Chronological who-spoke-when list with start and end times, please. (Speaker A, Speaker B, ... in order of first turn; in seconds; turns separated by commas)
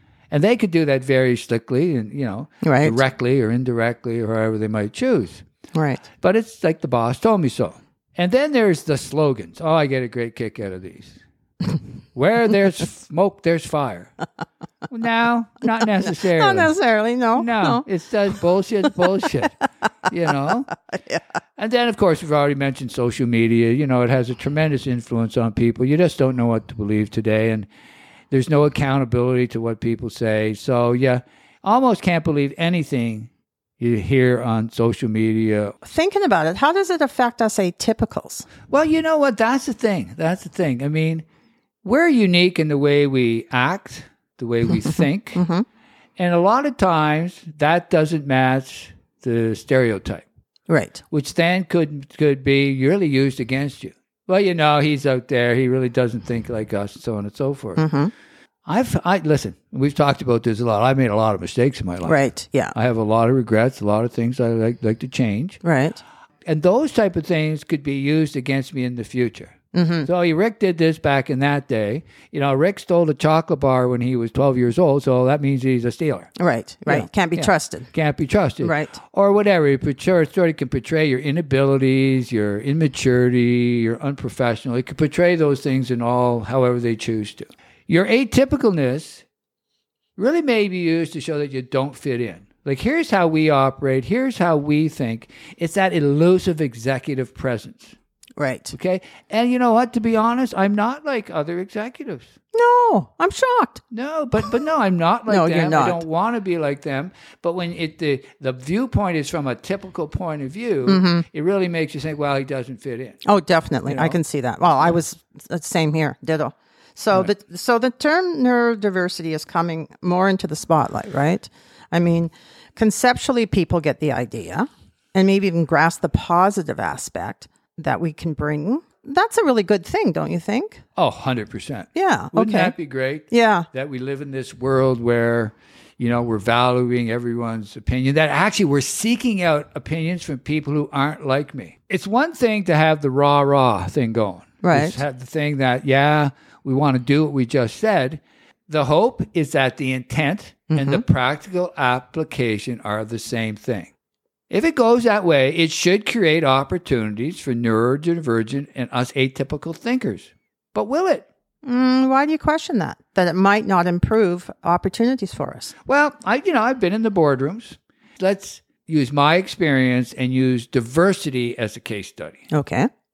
Speaker A: 0.3-5.4, Speaker B: 2.6-3.0, Speaker B: 5.8-6.0, Speaker A: 6.2-11.2, Speaker A: 12.2-14.1, Speaker A: 14.9-16.7, Speaker B: 16.0-17.8, Speaker A: 17.4-19.6, Speaker A: 20.1-20.7, Speaker B: 20.9-21.2, Speaker A: 21.6-27.7, Speaker A: 28.3-35.8, Speaker B: 35.8-38.5, Speaker A: 38.7-41.2, Speaker A: 41.8-45.4, Speaker B: 44.9-45.6, Speaker A: 46.2-50.2, Speaker B: 50.7-51.0, Speaker A: 51.1-57.8, Speaker B: 57.8-58.1, Speaker A: 58.7-62.2, Speaker B: 62.1-62.7, Speaker A: 62.7-65.6, Speaker B: 65.6-66.0, Speaker A: 66.5-76.3, Speaker B: 69.7-70.1, Speaker B: 76.4-77.9, Speaker A: 76.9-89.2, Speaker B: 78.6-79.0, Speaker A: 90.2-98.0, Speaker B: 98.4-98.7, Speaker A: 98.7-102.3, Speaker B: 102.5-103.8, Speaker A: 103.9-113.2, Speaker B: 105.3-106.0, Speaker B: 110.9-111.3, Speaker B: 113.2-130.8, Speaker A: 113.9-114.2, Speaker A: 131.0-153.9, Speaker B: 131.9-132.7, Speaker B: 133.3-133.7, Speaker B: 144.6-145.0, Speaker B: 150.7-151.0, Speaker A: 154.5-161.3, Speaker B: 161.6-165.7, Speaker A: 165.9-172.5, Speaker B: 172.5-172.9